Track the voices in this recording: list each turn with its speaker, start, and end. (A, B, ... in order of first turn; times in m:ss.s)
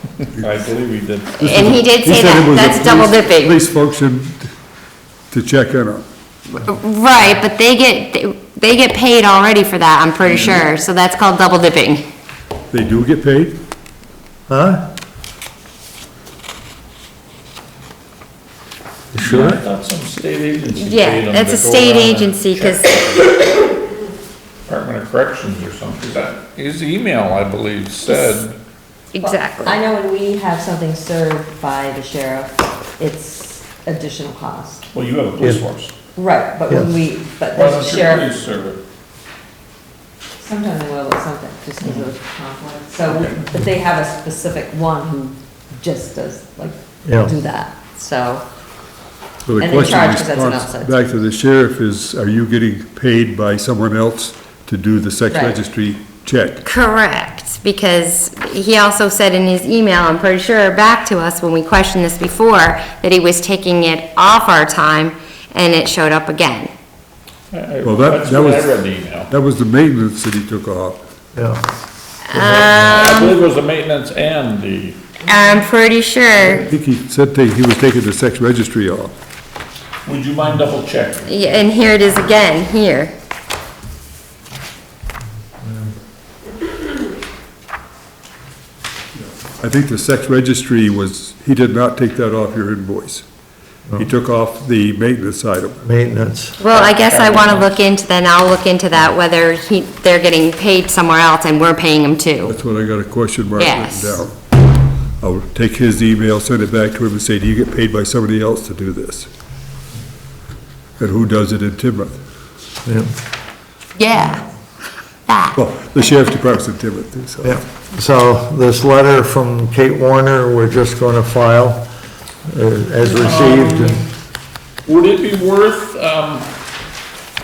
0:00.4-0:01.4 A
0:01.4-0:03.6 B
0:01.4-0:04.5 C
0:05.3-0:06.0 C
0:06.5-0:12.0 B
0:10.2-0:10.6 A
0:12.7-0:13.6 C
0:14.5-0:14.8 D
0:19.1-0:19.6 D
0:19.2-0:23.5 A
0:20.7-0:23.4 B
0:24.7-0:28.6 A
0:29.1-0:29.8 B
0:29.2-0:34.8 E
0:34.9-0:35.9 A
0:36.1-0:38.3 E
0:37.5-0:38.8 A
0:40.4-0:48.4 E
0:43.1-0:43.4 A
0:47.0-0:47.3 D
0:49.4-0:56.6 C
0:49.6-0:50.9 E
0:55.3-0:55.6 E
0:56.6-1:06.7 B
1:07.5-1:09.3 A
1:07.8-1:08.8 C
1:09.3-1:11.0 C
1:11.3-1:11.6 D
1:12.3-1:13.4 B
1:12.4-1:15.0 A
1:15.2-1:16.7 B
1:16.5-1:19.2 C
1:20.0-1:21.3 A
1:21.3-1:23.1 B
1:29.2-1:33.2 C
1:34.0-1:35.9 C
1:35.8-1:36.6 D
1:36.6-1:42.5 B
1:36.7-1:37.6 A
1:42.5-1:44.4 C
1:43.6-1:44.2 B
1:45.2-1:49.3 C
1:51.0-1:52.2 C
1:54.0-1:54.4 B
1:55.3-1:55.6 B
1:55.5-1:57.6 C
1:57.4-2:01.8 D
2:02.5-2:04.0 D
2:03.0-2:04.0 A
2:04.8-2:06.5 A